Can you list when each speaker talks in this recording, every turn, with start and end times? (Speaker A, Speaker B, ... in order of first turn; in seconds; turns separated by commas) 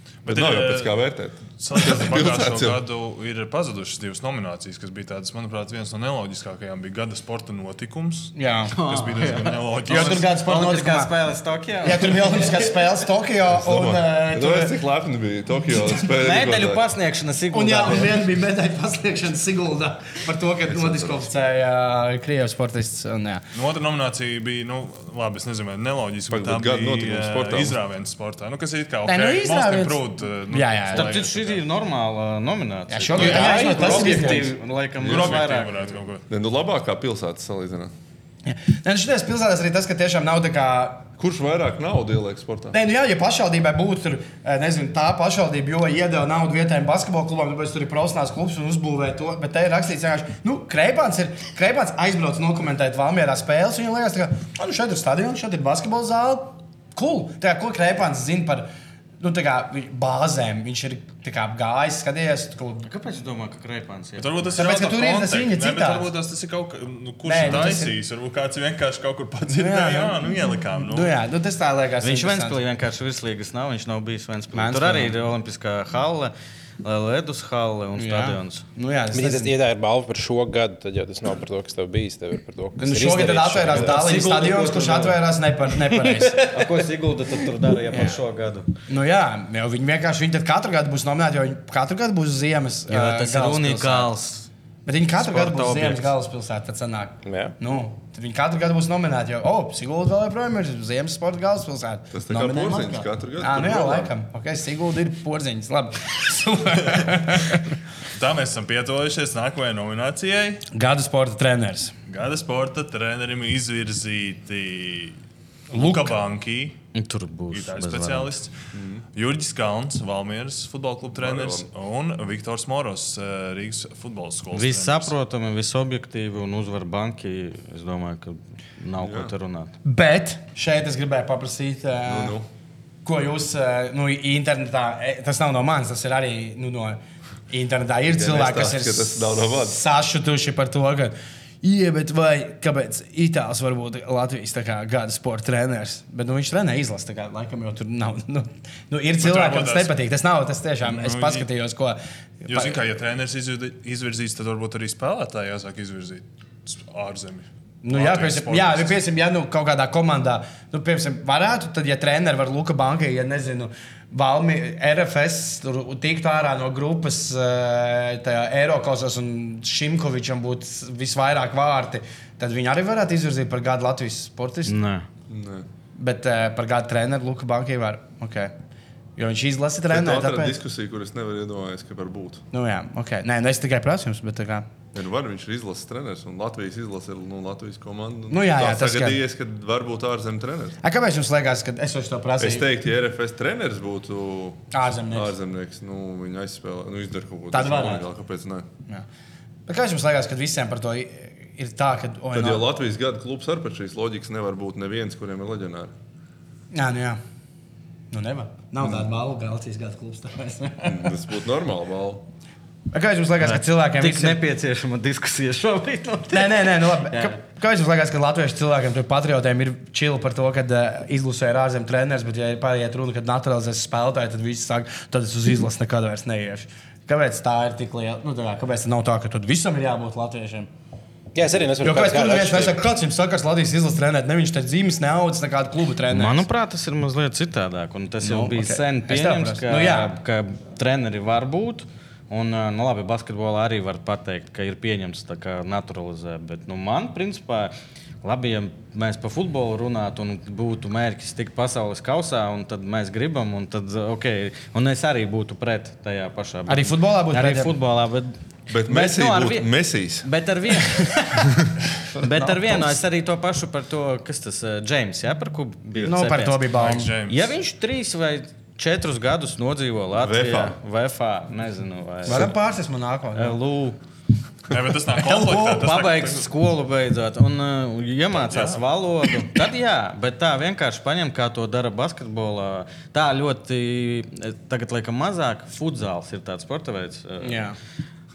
Speaker A: 0.2-1.1, Speaker B: 0.2-2.8, Speaker A: 1.6-10.3, Speaker C: 8.3-8.7, Speaker D: 8.7-12.8, Speaker C: 9.8-11.1, Speaker C: 11.8-14.8, Speaker B: 13.5-16.8, Speaker D: 16.1-18.1, Speaker C: 17.5-23.4, Speaker B: 20.6-21.3, Speaker A: 23.5-31.6, Speaker B: 26.3-27.8, Speaker C: 29.1-31.1, Speaker D: 30.9-35.9, Speaker C: 32.9-34.5, Speaker A: 33.1-33.9, Speaker E: 33.2-34.4, Speaker B: 35.0-35.4, Speaker A: 35.0-36.2, Speaker B: 36.3-37.9, Speaker C: 38.5-41.0, Speaker B: 41.2-42.8, Speaker C: 42.7-58.7, Speaker C: 59.2-62.9, Speaker D: 62.8-64.6, Speaker A: 64.2-71.2, Speaker C: 64.6-66.1, Speaker C: 67.2-67.9, Speaker C: 69.5-72.6, Speaker D: 72.0-78.6, Speaker C: 74.5-75.1, Speaker C: 78.0-79.5, Speaker E: 79.1-85.1, Speaker C: 82.8-86.5, Speaker D: 83.8-84.6, Speaker E: 85.8-86.6, Speaker D: 86.4-88.7, Speaker C: 88.9-94.1, Speaker D: 92.9-94.5, Speaker C: 94.8-107.6, Speaker D: 95.2-96.1, Speaker E: 97.2-97.5, Speaker B: 102.1-104.1, Speaker A: 108.1-110.6, Speaker C: 110.7-111.9, Speaker A: 112.1-115.2, Speaker A: 115.7-116.8, Speaker C: 115.7-116.1, Speaker D: 116.9-118.3, Speaker A: 117.5-118.5, Speaker B: 118.7-119.0, Speaker A: 119.1-125.1, Speaker B: 121.1-121.7, Speaker D: 124.5-129.7, Speaker B: 129.0-129.3, Speaker C: 129.8-132.3, Speaker B: 132.1-132.5, Speaker C: 133.0-137.0, Speaker C: 137.5-152.8, Speaker B: 138.1-139.8, Speaker A: 149.2-149.9, Speaker A: 150.8-151.5, Speaker A: 152.4-159.0, Speaker C: 157.8-174.7, Speaker D: 174.6-175.1, Speaker B: 175.3-175.7, Speaker C: 175.9-178.5, Speaker C: 179.2-180.5, Speaker B: 179.9-182.4, Speaker C: 182.5-184.7, Speaker B: 184.9-190.8, Speaker C: 188.3-189.2, Speaker C: 190.8-192.7, Speaker B: 192.4-198.7, Speaker C: 194.7-195.3, Speaker C: 197.5-198.1, Speaker C: 199.7-202.7, Speaker B: 202.3-205.9, Speaker C: 206.7-207.2, Speaker C: 208.1-211.2, Speaker B: 210.8-212.2, Speaker C: 212.9-214.4, Speaker D: 213.4-217.3, Speaker C: 216.3-230.7, Speaker E: 231.3-232.8, Speaker C: 231.8-236.4, Speaker D: 236.1-259.7, Speaker C: 238.2-240.2, Speaker C: 256.7-257.7, Speaker B: 258.7-260.3, Speaker D: 260.2-261.4, Speaker C: 262.0-263.0, Speaker D: 262.2-272.5, Speaker C: 266.0-267.1, Speaker A: 266.7-267.5, Speaker B: 270.1-270.8, Speaker C: 272.2-273.6, Speaker D: 273.3-274.0, Speaker A: 274.7-276.5, Speaker C: 275.2-275.8, Speaker D: 275.6-287.7, Speaker A: 278.3-278.8, Speaker C: 287.4-287.8